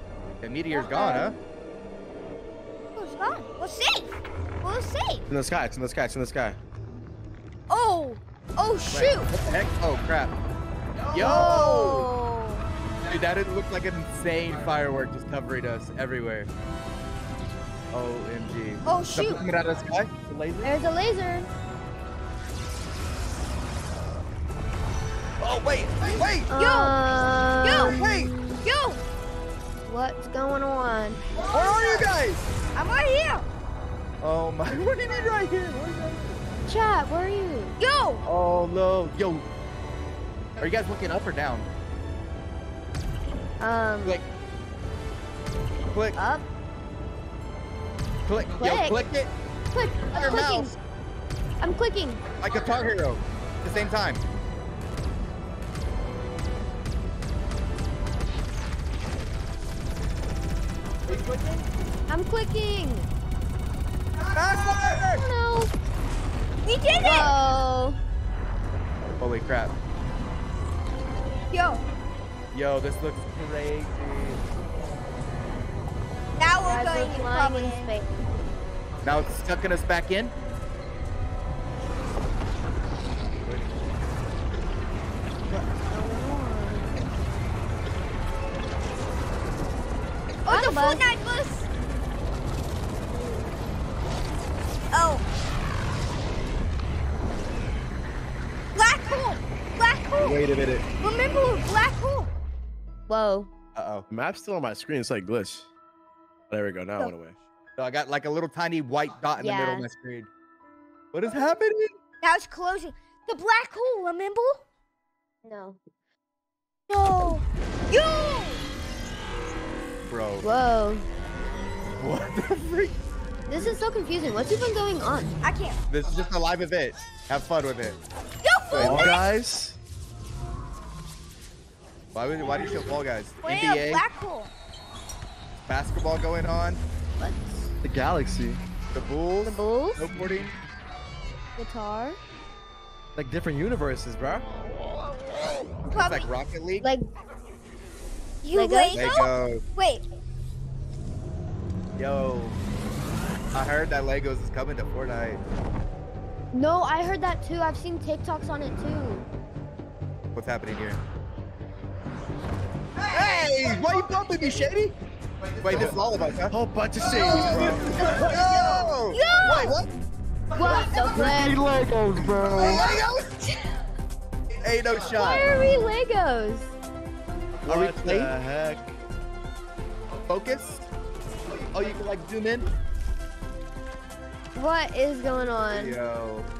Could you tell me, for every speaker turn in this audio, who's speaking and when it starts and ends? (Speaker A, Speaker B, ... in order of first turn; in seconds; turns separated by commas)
Speaker A: 0.4-1.4, Speaker B: 0.7-1.4, Speaker B: 2.9-5.2, Speaker C: 5.3-6.6, Speaker B: 7.7-9.3, Speaker A: 8.9-10.3, Speaker A: 11.1-12.1, Speaker B: 11.1-12.7, Speaker D: 11.2-11.9, Speaker A: 13.0-16.5, Speaker A: 17.9-20.7, Speaker B: 18.9-19.4, Speaker D: 20.6-21.5, Speaker A: 25.4-26.5, Speaker D: 26.5-28.6, Speaker B: 26.5-26.9, Speaker B: 27.6-28.0, Speaker A: 27.8-28.3, Speaker B: 28.6-29.0, Speaker D: 29.8-31.2, Speaker B: 31.5-32.1, Speaker A: 31.5-32.5, Speaker B: 32.7-33.5, Speaker A: 34.2-36.4, Speaker D: 36.6-37.8, Speaker B: 37.8-38.2, Speaker A: 38.2-39.5, Speaker A: 40.6-41.7, Speaker D: 43.6-44.2, Speaker A: 45.9-46.2, Speaker D: 46.1-46.4, Speaker A: 48.3-49.3, Speaker D: 48.6-49.0, Speaker D: 49.7-50.8, Speaker A: 50.1-50.8, Speaker D: 51.6-52.2, Speaker A: 52.4-54.2, Speaker A: 61.1-61.6, Speaker D: 62.1-63.1, Speaker A: 64.3-65.2, Speaker D: 65.0-65.7, Speaker B: 66.6-67.3, Speaker D: 67.0-68.0, Speaker A: 69.2-69.7, Speaker B: 71.5-71.8, Speaker A: 72.5-74.4, Speaker B: 76.4-77.9, Speaker D: 76.6-78.1, Speaker A: 79.0-80.3, Speaker A: 83.5-83.7, Speaker D: 85.5-87.0, Speaker D: 90.5-91.1, Speaker B: 90.5-91.7, Speaker D: 93.1-93.5, Speaker B: 94.9-95.2, Speaker B: 98.7-100.4, Speaker A: 100.2-100.8, Speaker B: 101.0-102.3, Speaker D: 103.1-103.5, Speaker A: 103.7-104.0, Speaker C: 104.1-105.7, Speaker C: 106.5-107.3, Speaker A: 107.8-110.3, Speaker D: 109.4-109.8, Speaker A: 111.1-111.9, Speaker B: 112.2-114.6, Speaker D: 115.4-115.8, Speaker B: 116.9-118.6, Speaker A: 120.0-120.5, Speaker D: 120.4-121.0, Speaker A: 122.0-122.9, Speaker D: 123.5-125.4, Speaker B: 125.4-125.8, Speaker A: 125.9-128.0, Speaker B: 128.4-129.2, Speaker A: 128.7-129.2, Speaker C: 128.8-129.8, Speaker A: 132.1-134.1, Speaker B: 133.4-134.5, Speaker A: 135.7-136.8, Speaker D: 137.2-137.7, Speaker C: 137.8-138.6, Speaker A: 138.9-140.5, Speaker D: 139.4-140.0, Speaker D: 141.6-142.2, Speaker C: 143.1-144.5, Speaker B: 145.9-146.3, Speaker A: 145.9-146.9, Speaker D: 146.8-147.1, Speaker B: 148.4-150.0, Speaker D: 148.5-149.0, Speaker A: 148.9-149.6, Speaker A: 152.0-152.6, Speaker A: 153.5-155.4, Speaker D: 156.5-159.3, Speaker A: 160.3-161.0, Speaker A: 163.1-164.9, Speaker A: 165.6-166.5, Speaker C: 166.5-168.4, Speaker A: 167.2-169.9, Speaker B: 169.1-169.8, Speaker D: 170.5-171.7, Speaker A: 170.8-171.3, Speaker C: 171.1-172.8, Speaker A: 172.2-173.1, Speaker A: 174.6-175.5, Speaker D: 175.2-176.7, Speaker A: 177.7-178.3, Speaker C: 177.7-178.9, Speaker A: 180.3-180.9, Speaker A: 181.7-182.7, Speaker D: 184.6-186.0, Speaker A: 185.7-186.5